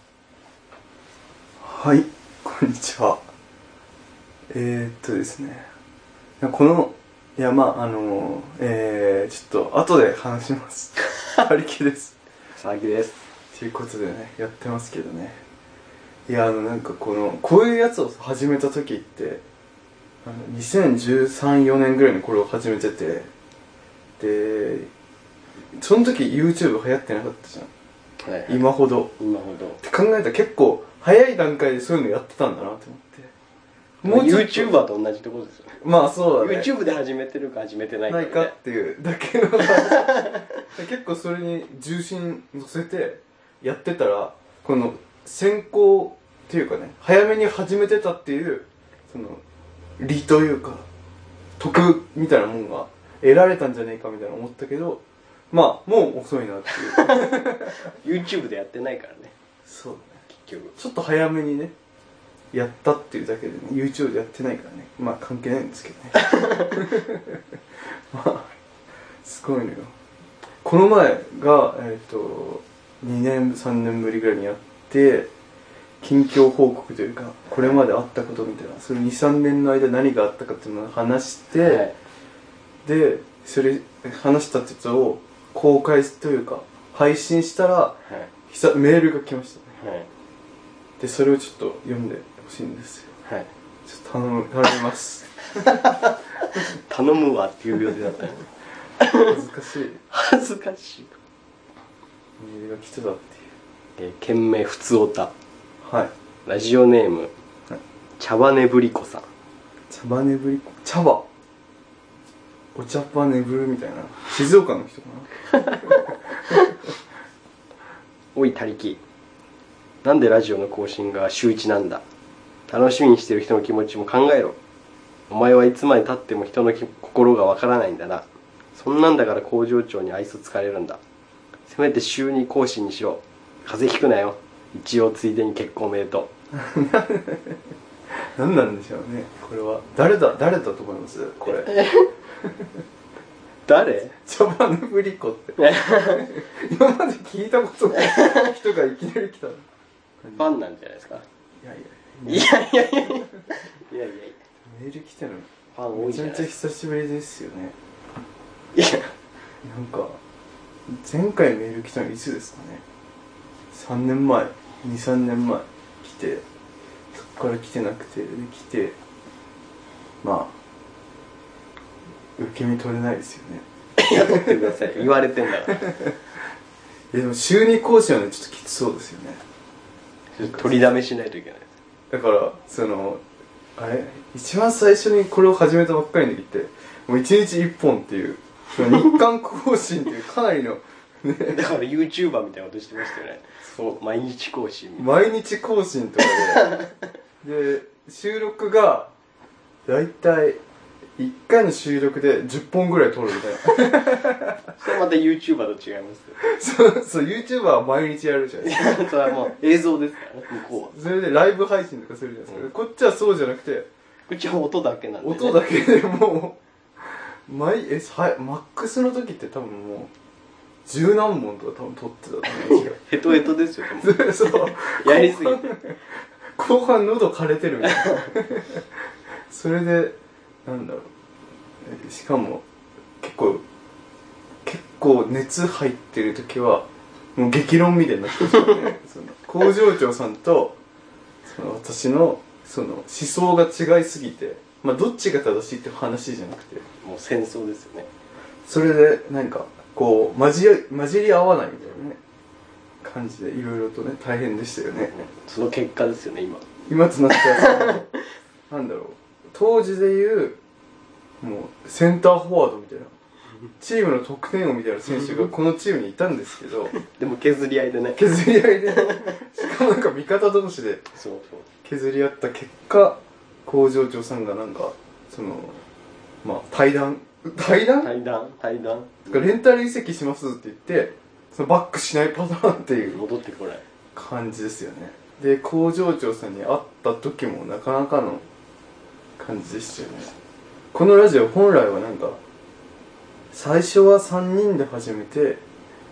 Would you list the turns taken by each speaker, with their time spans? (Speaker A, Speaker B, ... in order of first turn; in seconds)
Speaker A: 1.6-3.2, 4.5-5.7, 6.4-12.1, 13.5-15.4, 16.3-19.4, 20.2-23.3, 24.2-24.9, 25.7-27.7, 28.5-29.1, 29.8-33.3, 34.0-34.8, 35.8-36.7, 38.1-49.4, 50.0-50.9, 51.6-57.8, 59.7-60.2, 60.8-61.7, 62.5-67.4, 68.1-68.5, 69.2-69.9, 70.6-75.3, 76.0-81.9, 82.8-89.7, 91.0-93.1, 93.8-95.8, 99.2-100.0, 102.4-103.5, 105.8-106.1, 109.9-111.3, 112.7-116.7, 136.5-137.6, 138.3-141.7, 144.2-149.7, 150.2-150.5, 151.6-152.5, 154.7-157.8, 159.6-160.2, 160.9-162.8, 163.7-166.4, 167.1-169.0, 170.2-170.5, 172.4-175.0, 175.7-176.2, 177.1-179.4, 180.4-181.0, 182.1-183.2, 183.8-191.6, 195.0-196.7, 197.4-199.1, 199.9-200.6, 201.2-204.7, 206.4-209.5, 210.9-213.9, 215.2-220.1, 220.9-223.4, 224.0-226.0, 226.6-228.9, 229.5-231.1, 231.8-232.7, 233.2-233.6, 234.6-240.8, 241.4-246.9, 248.7-252.2, 253.0-255.1, 256.9-258.1, 258.7-260.6, 261.4-263.1, 263.8-266.9, 268.2-271.1, 271.8-275.8, 276.4-278.1, 279.3-283.2, 284.1-288.4, 289.4-290.3, 290.9-292.4, 293.5-295.6
Speaker B: 12.6-13.2, 28.2-28.6, 29.2-29.8, 34.0-35.8, 36.4-38.5, 39.8-40.5, 56.8-59.3, 60.3-60.8, 66.2-66.8, 81.6-81.9, 88.0-88.3, 89.8-90.1, 95.8-98.5, 99.0-99.4, 100.1-101.2, 104.0-105.3, 106.5-107.3, 108.2-109.2, 115.6-116.6, 118.3-119.0, 120.0-122.0, 122.7-124.6, 125.3-131.0, 131.7-136.3, 141.4-142.1, 143.7-144.2, 145.6-146.3, 148.0-148.5, 150.4-151.2, 152.3-154.4, 155.7-156.5, 158.8-159.1, 174.0-175.9, 180.3-181.7, 191.5-195.1, 196.4-196.9, 204.8-206.4, 208.6-210.9, 214.3-215.6, 222.5-225.7, 227.9-228.3, 247.0-248.1, 255.1-256.6, 257.3-258.2, 267.0-268.2, 268.9-269.4, 271.2-271.7, 278.0-279.5, 282.9-283.8